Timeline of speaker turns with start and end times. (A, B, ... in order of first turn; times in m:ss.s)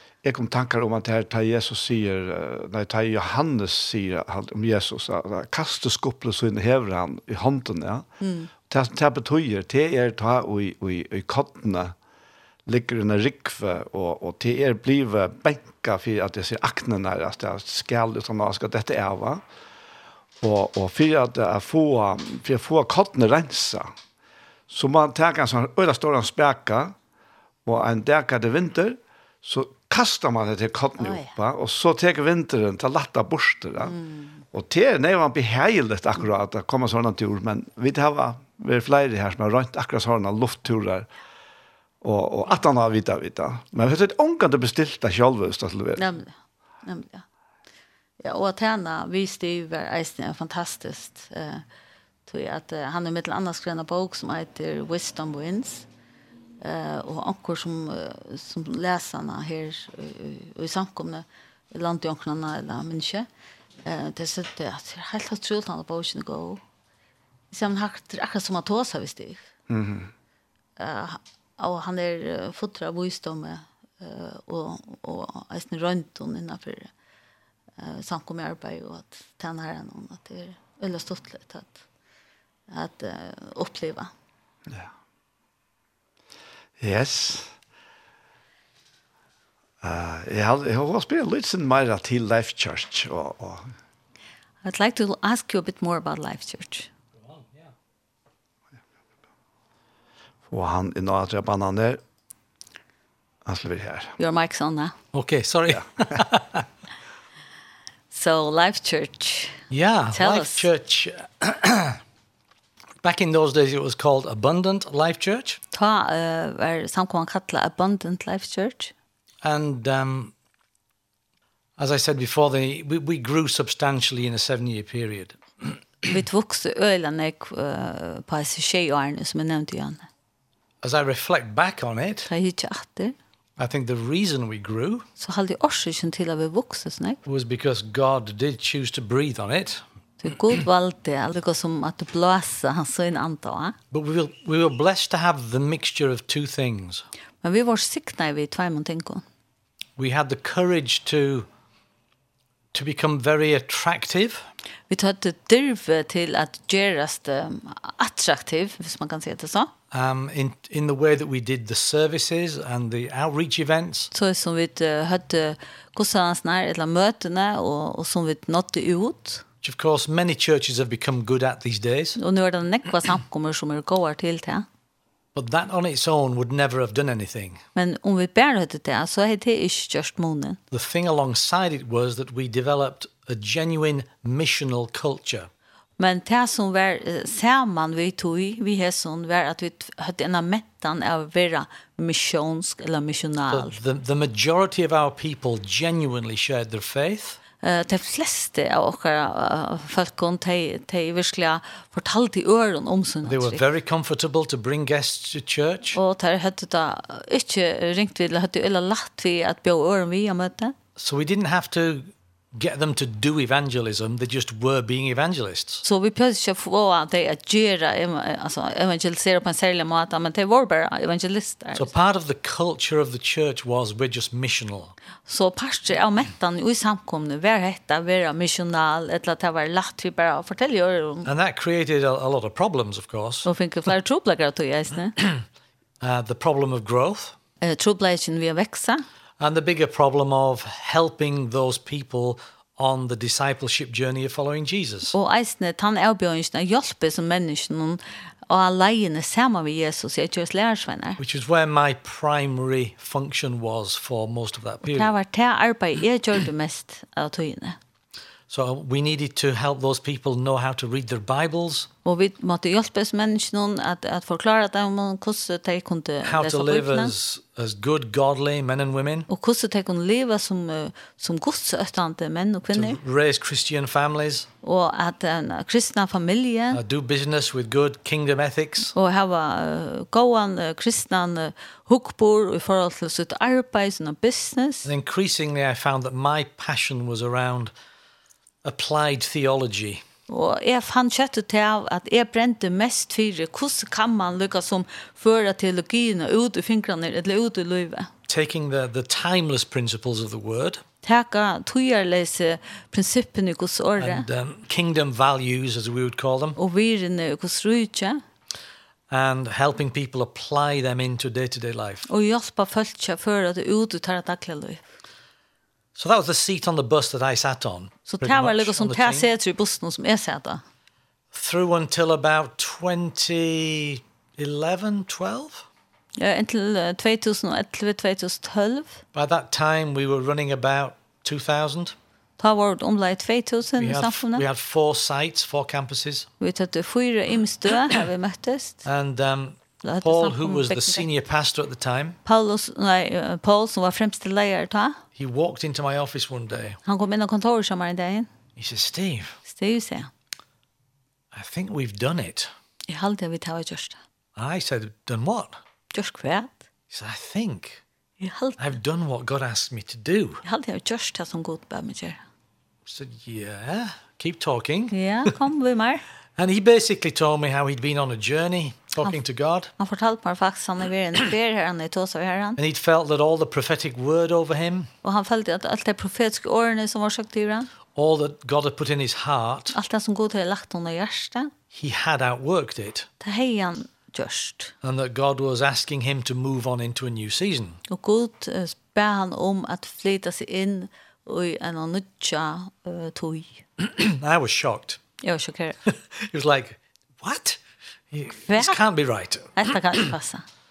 0:00.2-0:08.0 A
0:08.2-0:08.5 B
0:08.7-0:11.9 A
0:12.7-0:19.4 A
0:20.4-0:23.9 A
0:24.7-0:26.9 A
0:27.6-0:34.0 A
0:31.0-0:31.3 B
0:33.8-0:34.4 B
0:34.5-0:41.1 A
0:42.0-0:46.0 A
0:46.0-0:46.3 B
0:46.8-0:47.2 B
0:48.2-0:51.6 B
0:52.2-0:55.9 B
0:56.6-1:03.3 B
1:03.8-1:06.6 B
1:07.5-1:09.4 B
1:09.7-1:10.1 A
1:10.8-1:16.9 B
1:17.8-1:21.8 B
1:22.7-1:24.1 B
1:26.8-1:27.5 A
1:29.8-1:33.7 A
1:34.6-1:36.9 B
1:37.2-1:37.7 C
1:40.5-1:42.0 A
1:43.4-1:44.1 A
1:44.2-1:44.9 B
1:45.1-1:46.6 C
1:45.7-1:46.2 A
1:48.1-1:49.6 B
1:49.7-1:52.0 C
1:50.1-1:50.6 B
1:53.0-1:55.6 C
1:55.7-1:58.9 B
1:59.4-2:00.3 C
2:01.8-2:05.8 C
2:06.1-2:10.1 B
2:10.8-2:12.3 C
2:12.3-2:13.1 B
2:13.6-2:15.0 C
2:15.2-2:17.2 B
2:17.2-2:19.8 C
2:20.2-2:23.8 B
2:23.9-2:27.0 C
2:27.4-2:29.2 B
2:30.0-2:31.5 C
2:32.7-2:34.4 C
2:34.9-2:39.7 B
2:39.9-2:44.1 C
2:44.1-2:49.4 B
2:49.6-2:52.2 C
2:52.2-2:54.6 B
2:55.3-2:57.6 C
2:57.7-3:00.6 B
3:00.7-3:05.5 C
3:06.0-3:13.8 B
3:13.5-3:17.4 C
3:17.6-3:23.6 B
3:23.2-3:26.0 C
3:25.9-3:30.7 B
3:31.0-3:35.8 C
3:35.8-3:41.9 B
3:41.7-3:44.9 C
3:45.3-3:51.3 B
3:51.2-3:53.5 C
3:53.4-3:55.2 B
3:56.0-3:57.4 C
3:57.6-3:59.0 B
3:59.4-4:05.1 C
4:05.1-4:11.2 B
4:11.2-4:15.1 C
4:14.8-4:17.8 B
4:18.5-4:21.9 C
4:22.0-4:27.1 B
4:26.2-4:29.3 C
4:29.3-4:33.0 B
4:32.7-4:34.5 C
4:34.6-4:36.8 B
4:36.7-4:38.9 C
4:38.9-4:44.9 B
4:44.8-4:47.7 C
4:48.6-4:50.0 C
4:50.3-4:58.1 B
4:58.3-5:00.8 C
5:01.0-5:04.3 B
5:04.0-5:06.6 C
5:06.6-5:08.2 B
5:09.1-5:12.1 C
5:12.1-5:14.8 B
5:15.9-5:19.3 C
5:18.1-5:20.6 B
5:21.3-5:25.6 C
5:26.2-5:29.0 B
5:29.1-5:32.0 C
5:32.4-5:34.4 B
5:33.8-5:36.3 C
5:36.4-5:38.8 B
5:38.8-5:42.2 C
5:39.8-5:41.0 B
5:42.2-5:45.0 B
5:45.2-5:46.8 C
5:46.8-5:48.3 B
5:48.6-5:49.4 C
5:49.5-5:50.1 B
5:51.3-5:52.5 C
5:52.9-5:54.0 B
5:54.4-5:55.6 C
5:55.9-5:56.6 B
5:56.9-5:57.8 C
5:58.2-5:58.8 B
5:58.6-6:00.4 C
6:00.4-6:02.2 B
6:02.8-6:04.9 C
6:04.9-6:06.0 B
6:06.4-6:09.7 C
6:09.8-6:12.6 B
6:12.6-6:14.9 C
6:15.0-6:17.7 B
6:17.9-6:19.8 C
6:19.7-6:21.5 B
6:21.7-6:23.1 C
6:23.2-6:24.7 B
6:24.8-6:27.8 C
6:27.9-6:33.6 B
6:33.8-6:35.0 C
6:35.2-6:35.8 B
6:35.9-6:37.6 C
6:38.1-6:40.0 C
6:38.5-6:38.8 B
6:39.6-6:40.4 B